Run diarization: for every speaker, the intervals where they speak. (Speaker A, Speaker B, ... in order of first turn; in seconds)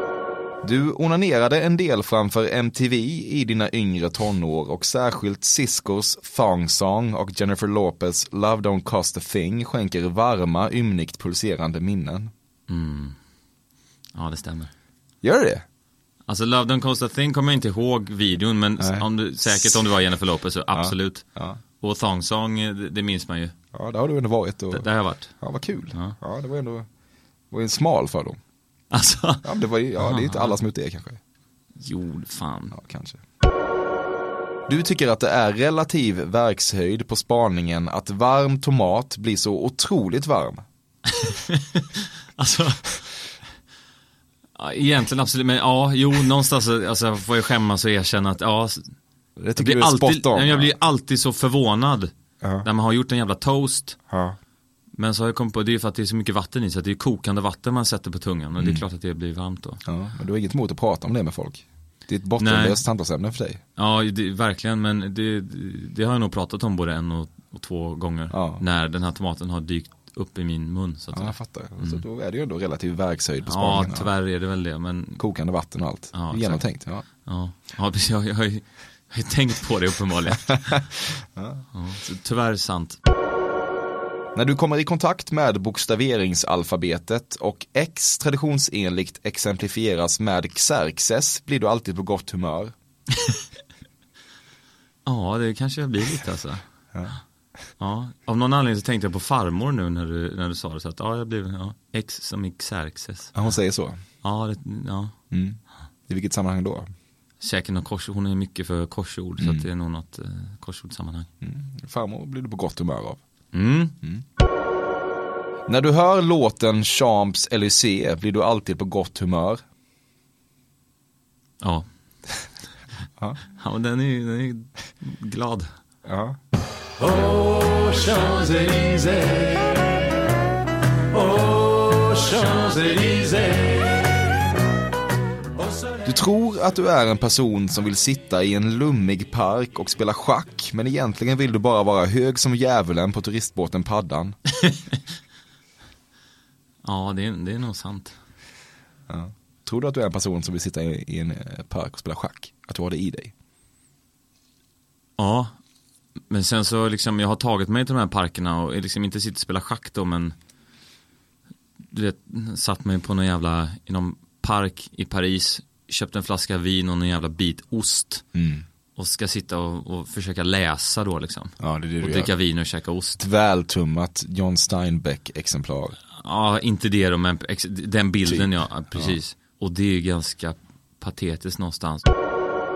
Speaker A: 0.6-12.3, 15.2-15.6, 18.8-19.8, 20.7-21.6, 23.7-24.9, 25.4-26.9, 27.5-28.4, 29.4-31.2, 32.7-33.2, 34.7-40.6, 49.4-50.7, 52.4-52.7, 54.1-54.4, 58.6-58.8, 59.8-63.6, 68.3-68.6, 71.1-74.1, 75.2-77.0, 81.3-81.6, 84.3-92.7, 103.3-104.0, 105.3-106.9, 109.4-109.7, 111.4-113.2, 115.7-119.6, 126.0-126.4, 136.0-144.3, 149.1-153.3, 168.3-168.6, 171.6-172.3, 173.2-175.9, 178.2-179.2
Speaker B: 12.7-13.2, 14.1-14.7, 16.3-21.2, 21.8-23.5, 24.7-26.1, 28.9-29.4, 30.0-30.6, 31.8-32.7, 41.1-43.0, 44.6-48.9, 49.5-52.1, 52.6-54.0, 55.0-59.8, 62.4-62.8, 63.8-72.0, 73.4-75.2, 76.1-76.6, 77.2-80.8, 81.7-83.0, 95.0-96.6, 97.8-103.3, 104.2-105.1, 107.4-111.3, 113.5-113.9, 121.6-121.8, 123.5-125.7, 146.8-148.1, 155.2-155.5, 156.3-160.3, 161.9-168.2, 168.9-173.2, 176.2-182.0
Speaker C: 127.0-129.8, 131.1-134.0